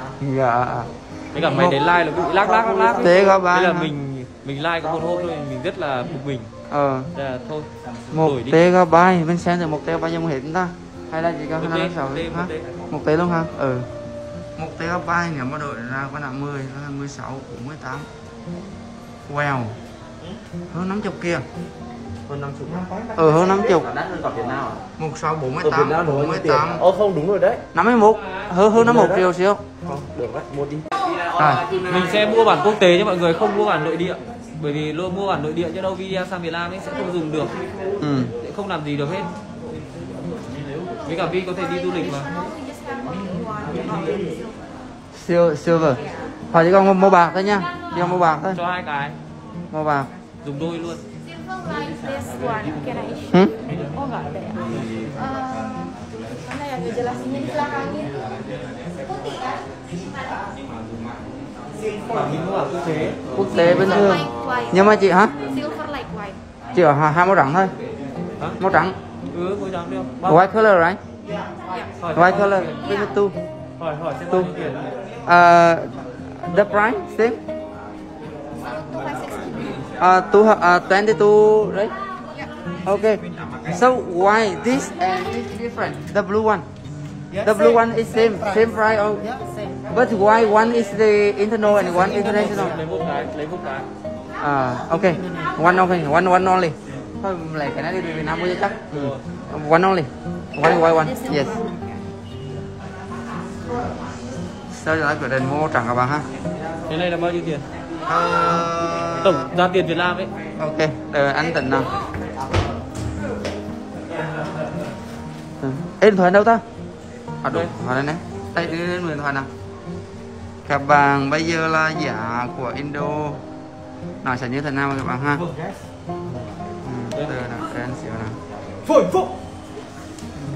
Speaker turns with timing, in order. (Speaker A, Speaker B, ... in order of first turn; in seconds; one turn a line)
Speaker A: 0.2-1.8
Speaker B: 1.3-6.5
Speaker C: 2.2-2.9
Speaker A: 2.6-3.9
Speaker A: 6.7-7.1
Speaker B: 7.1-8.6
Speaker A: 8.1-13.9
Speaker B: 11.6-12.7
Speaker A: 14.6-18.1
Speaker A: 19.3-19.7
Speaker A: 20.7-21.4
Speaker C: 22.3-24.8
Speaker A: 23.1-23.9
Speaker A: 25.0-26.8
Speaker C: 25.6-27.6
Speaker A: 27.7-29.6
Speaker C: 28.7-29.2
Speaker C: 29.8-30.8
Speaker A: 31.3-31.6
Speaker B: 31.7-37.6
Speaker A: 38.0-38.3
Speaker B: 38.4-39.3
Speaker B: 41.0-42.3
Speaker D: 42.3-44.2
Speaker C: 43.8-44.1
Speaker A: 45.1-48.6
Speaker B: 48.5-49.1
Speaker A: 49.7-50.1
Speaker B: 50.4-51.0
Speaker D: 51.5-54.6
Speaker D: 55.2-58.1
Speaker D: 59.1-59.6
Speaker B: 62.1-64.2
Speaker A: 63.3-65.4
Speaker D: 64.0-64.7
Speaker D: 65.4-66.4
Speaker A: 66.7-67.7
Speaker A: 68.6-69.0
Speaker B: 69.3-70.4
Speaker A: 70.2-71.0
Speaker B: 72.0-72.8
Speaker A: 72.1-73.4
Speaker B: 73.8-74.9
Speaker A: 75.2-77.4
Speaker D: 78.7-79.8
Speaker A: 80.0-81.9
Speaker A: 82.8-86.7
Speaker A: 87.4-89.3
Speaker A: 89.9-92.8
Speaker B: 92.1-93.9
Speaker A: 94.4-101.6
Speaker B: 98.9-99.2
Speaker A: 104.7-106.3
Speaker B: 106.9-107.7
Speaker A: 108.1-109.1
Speaker B: 109.1-110.3
Speaker A: 110.6-111.9
Speaker A: 115.6-116.6
Speaker A: 117.4-119.5
Speaker B: 117.5-117.7
Speaker A: 120.7-123.4
Speaker A: 124.2-125.5
Speaker A: 126.8-128.4
Speaker B: 127.1-127.4
Speaker C: 128.9-129.2